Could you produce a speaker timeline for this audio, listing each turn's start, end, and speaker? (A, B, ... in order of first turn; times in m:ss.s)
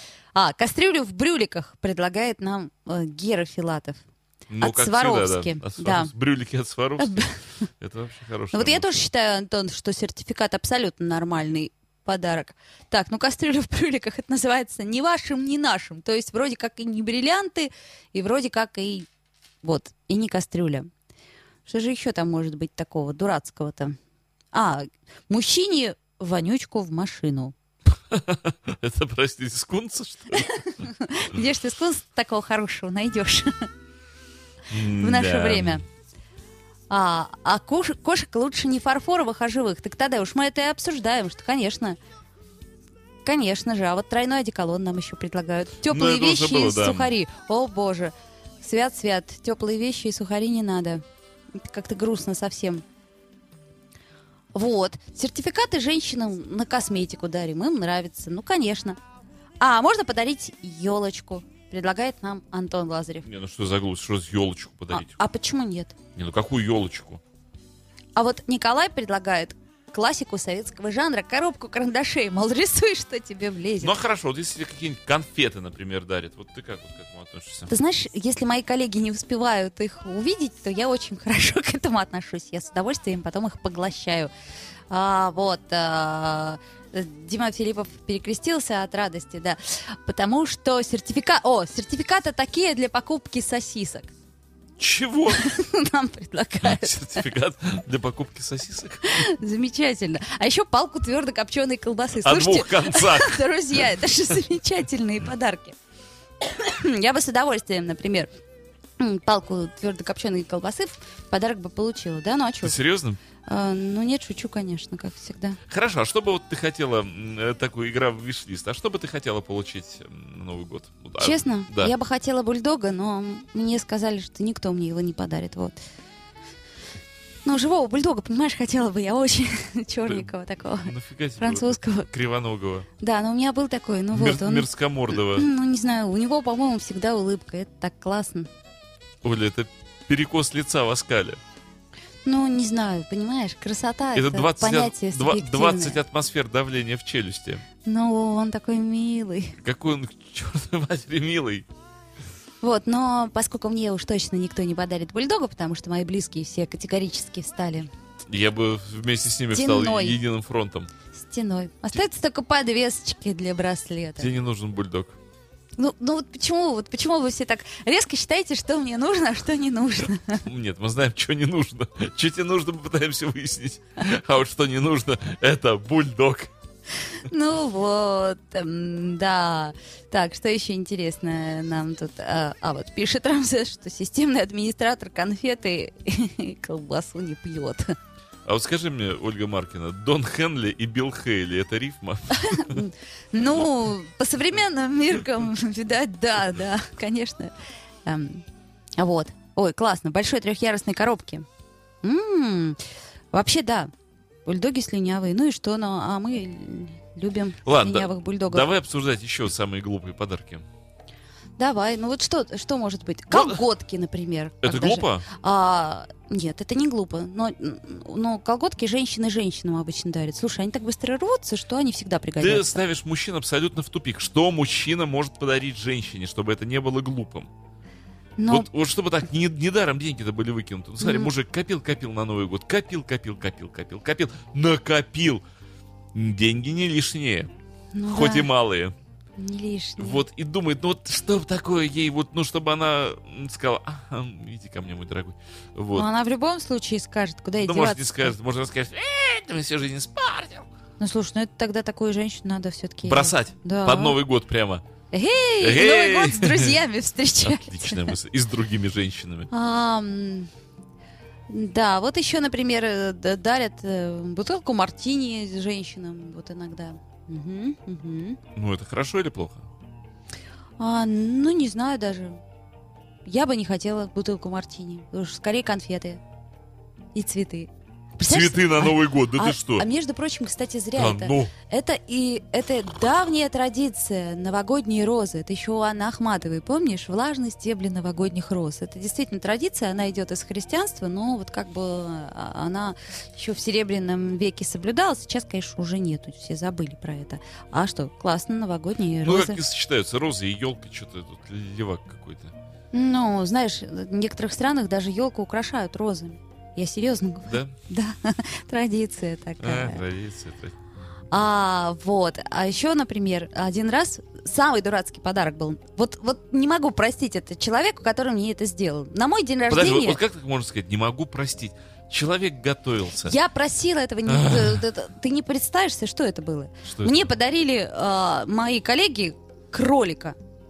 0:00.3-0:04.0 A
0:04.5-0:08.9 B
0:04.6-0:06.1 A
0:07.0-0:07.3 A
0:08.5-0:19.1 A
0:19.6-0:20.9 A
0:21.6-0:24.0 A
0:24.5-0:27.5 A
0:28.1-0:30.5 B
0:30.4-0:33.7 A
0:34.7-0:35.8 B
0:35.0-0:35.8 A
0:36.9-0:42.0 A
0:43.2-0:51.0 A
0:45.9-0:47.1 B
0:51.5-0:52.8 A
0:54.5-0:59.0 A
0:59.6-1:03.3 A
1:03.2-1:05.1 B
1:04.9-1:06.0 A
1:06.1-1:07.2 B
1:08.2-1:14.0 A
1:13.8-1:17.7 B
1:17.7-1:24.3 A
1:24.9-1:34.1 A
1:34.8-1:35.4 B
1:35.3-1:37.2 A
1:36.6-1:39.2 B
1:39.0-1:45.8 A
1:42.2-1:43.9 B
1:46.4-1:48.3 A
1:49.0-1:52.8 A
1:52.6-1:53.2 B
1:53.4-1:55.6 A
1:55.7-2:01.9 B
2:01.2-2:05.8 A
2:07.4-2:12.1 A
2:10.8-2:12.9 B
2:13.0-2:18.5 A
2:14.1-2:15.5 B
2:19.2-2:21.4 B
2:22.2-2:26.0 A
2:24.1-2:27.6 B
2:27.8-2:29.6 A
2:29.6-2:31.7 B
2:32.6-2:37.9 A
2:38.3-2:40.9 B
2:39.5-2:40.2 A
2:41.1-2:44.3 A
2:44.2-2:45.2 B
2:45.8-2:50.4 A
2:50.4-2:56.5 B
2:57.1-3:08.0 A
3:08.4-3:12.9 B
3:12.4-3:17.5 A
3:18.0-3:18.4 A
3:19.0-3:21.4 A
3:22.0-3:22.8 A
3:23.3-3:23.9 A
3:24.4-3:28.7 A
3:27.6-3:30.6 B
3:31.6-3:42.8 A
3:33.3-3:33.6 B
3:34.6-3:35.3 B
3:42.4-3:47.5 B
3:48.4-3:48.7 A
3:48.5-3:55.4 B
3:51.0-3:51.3 A
3:56.1-3:57.5 B
3:57.9-3:58.5 A
3:58.1-3:58.9 B
3:59.4-4:00.2 A
4:00.0-4:06.1 B
4:05.9-4:08.3 A
4:07.6-4:10.6 B
4:11.0-4:14.2 A
4:13.0-4:14.8 B
4:15.1-4:18.1 A
4:15.6-4:16.8 B
4:17.4-4:19.5 B
4:19.5-4:20.5 A
4:21.5-4:28.4 A
4:28.5-4:29.7 B
4:30.8-4:32.4 A
4:33.2-4:36.2 A
4:37.1-4:59.6 A
4:38.2-4:39.9 B
4:41.0-4:41.5 B
4:59.2-5:02.5 B
5:02.9-5:10.0 A
5:07.4-5:07.7 B
5:09.6-5:10.8 B
5:11.3-5:20.2 A
5:19.7-5:23.4 B
5:23.2-5:30.4 A
5:24.3-5:24.8 B
5:26.8-5:27.3 B